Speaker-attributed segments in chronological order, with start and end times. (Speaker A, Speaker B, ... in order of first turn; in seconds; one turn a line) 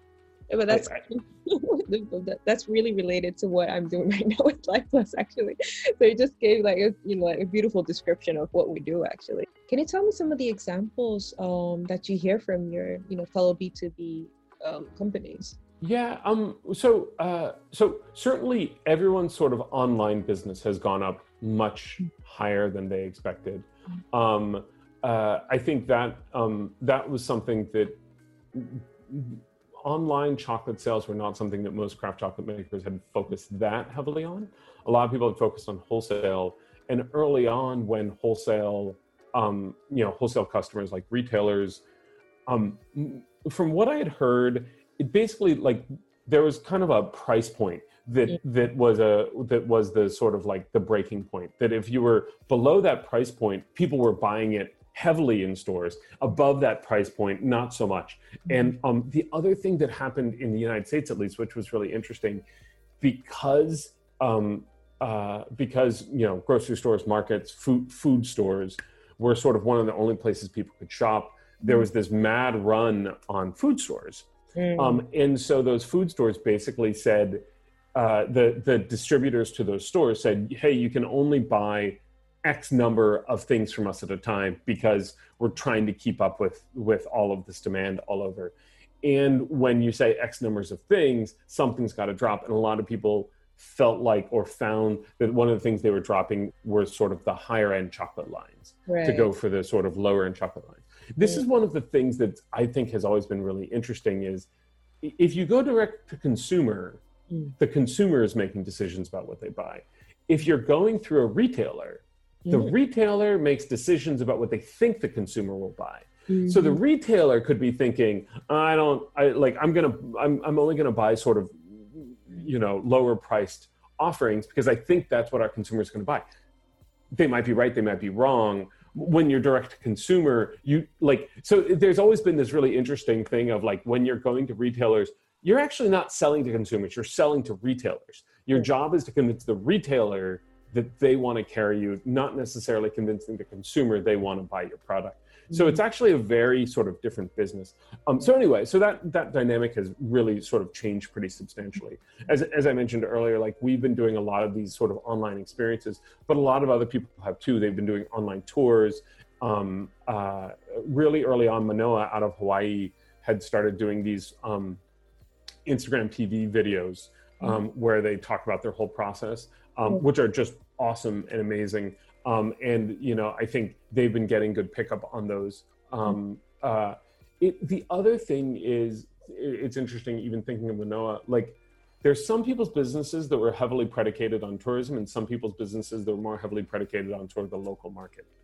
Speaker A: 0.5-15.6
Speaker B: 0.7-1.0
Speaker B: 15.8-28.0
Speaker B: 28.5-41.8
Speaker B: 42.5-62.5
Speaker B: 63.0-77.4
Speaker A: 74.5-75.0
Speaker B: 77.9-104.5
Speaker A: 98.9-99.3
Speaker B: 105.0-107.0
Speaker B: 107.6-126.2
Speaker A: 112.5-112.7
Speaker A: 116.3-116.8
Speaker B: 127.1-164.8
Speaker B: 165.7-188.3